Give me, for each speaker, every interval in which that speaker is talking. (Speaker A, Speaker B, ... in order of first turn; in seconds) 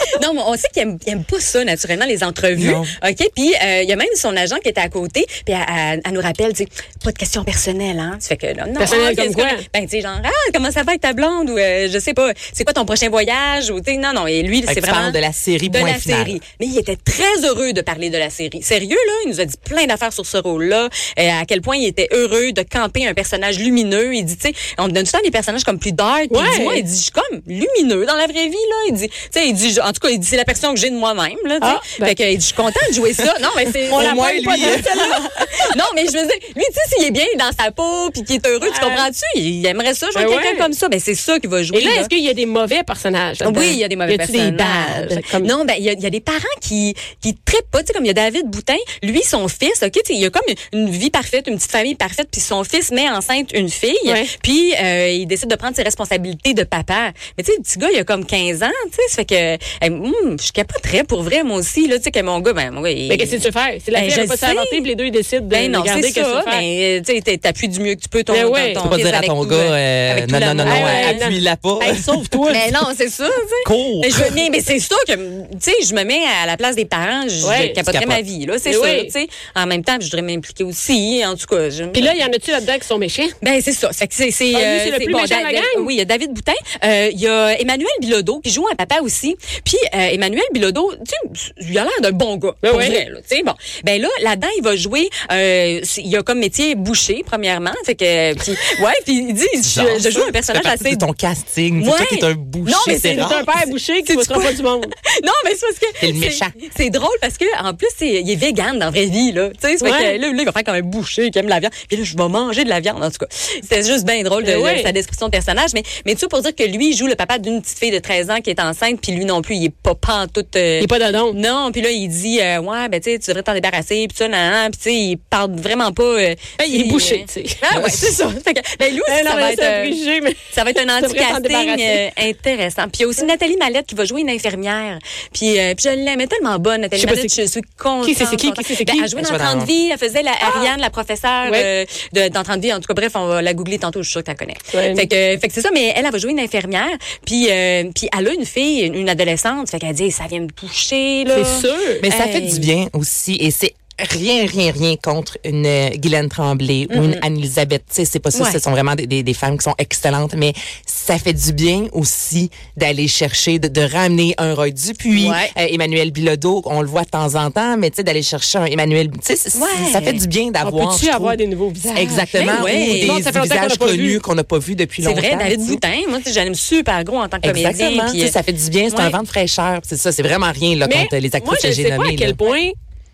Speaker A: 0.2-42.1, 43.4-64.9, 65.5-71.3, 72.5-82.2, 83.4-101.1, 101.8-103.1, 104.0-152.7, 156.9-157.2, 158.3-158.6, 165.1-165.5, 169.5-170.2, 172.4-173.2, 175.0-178.4, 178.9-179.2
Speaker B: 2.5-2.9, 14.7-16.4, 33.9-35.5, 68.8-72.6, 73.6-74.4, 77.9-78.2, 99.6-103.5, 106.0-106.5, 127.7-128.1, 139.2-139.7, 152.0-171.4, 171.9-175.8, 177.4-182.4
Speaker C: 8.8-9.6, 26.3-26.8, 31.6-32.1, 33.9-35.1, 38.6-39.1, 40.1-40.7, 41.7-45.5, 54.0-54.3, 63.1-66.6, 68.3-68.8, 70.6-72.7, 77.4-77.8, 78.6-79.1, 81.9-83.3, 84.5-85.9, 92.6-93.0, 102.8-104.9, 109.8-110.2, 114.4-114.9, 120.8-121.4, 126.7-127.6, 129.0-130.4, 130.9-132.0, 137.0-137.4, 138.0-139.1, 140.4-140.7, 141.4-141.7, 144.7-145.1, 151.3-152.0, 170.6-174.2, 180.8-182.7